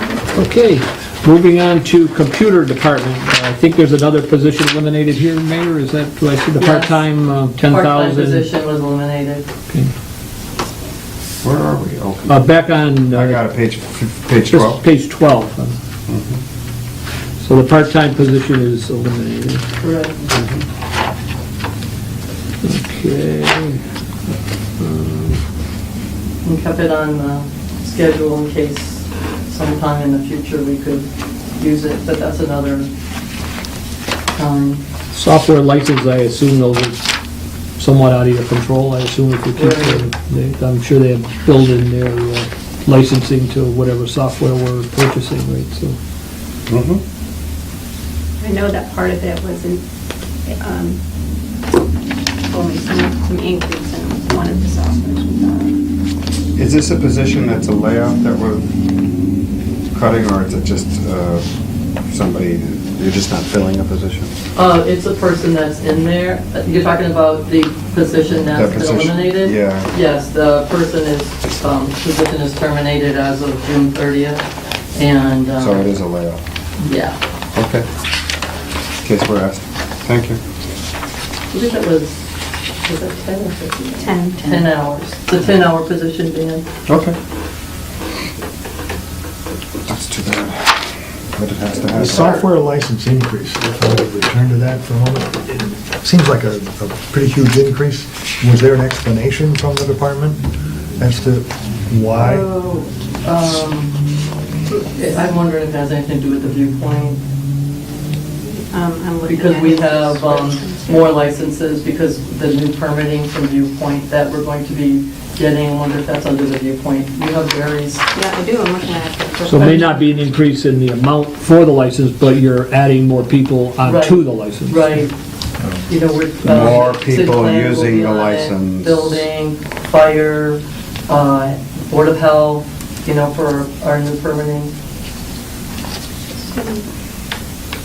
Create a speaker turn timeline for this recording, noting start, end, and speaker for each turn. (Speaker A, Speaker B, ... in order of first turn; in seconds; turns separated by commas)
Speaker A: 0.3-8.5, Speaker B: 6.6-9.5, Speaker C: 11.4-12.5, Speaker A: 12.3-13.4, Speaker C: 13.1-14.8, Speaker A: 14.5-15.8, Speaker C: 16.1-16.4, Speaker A: 17.4-19.6, Speaker B: 19.8-20.1, Speaker C: 20.3-20.6, Speaker A: 22.6-23.8, Speaker A: 24.8-25.4, Speaker B: 26.4-32.9, Speaker B: 34.4-34.8, Speaker A: 35.1-37.0, Speaker A: 37.8-46.0, Speaker B: 39.6-40.1, Speaker C: 46.7-47.0, Speaker D: 48.4-49.8, Speaker D: 50.5-51.0, Speaker D: 52.5-55.8, Speaker C: 56.6-58.6, Speaker C: 59.9-61.4, Speaker C: 62.1-64.3, Speaker B: 64.5-74.4, Speaker C: 68.5-69.9, Speaker B: 74.9-75.9, Speaker C: 75.6-76.4, Speaker B: 76.8-77.2, Speaker C: 77.5-77.9, Speaker C: 79.0-80.4, Speaker B: 81.5-82.2, Speaker B: 82.8-86.6, Speaker D: 84.0-84.6, Speaker C: 86.9-87.2, Speaker C: 89.9-92.3, Speaker E: 91.9-100.4, Speaker B: 92.1-92.5, Speaker E: 101.0-102.5, Speaker D: 102.2-102.9, Speaker B: 103.2-104.0, Speaker B: 104.7-107.2, Speaker D: 108.5-111.2, Speaker B: 109.2-118.0, Speaker D: 118.1-120.2, Speaker A: 119.5-125.0, Speaker B: 123.8-125.2, Speaker B: 125.9-134.7, Speaker C: 126.4-129.3, Speaker D: 136.5-136.8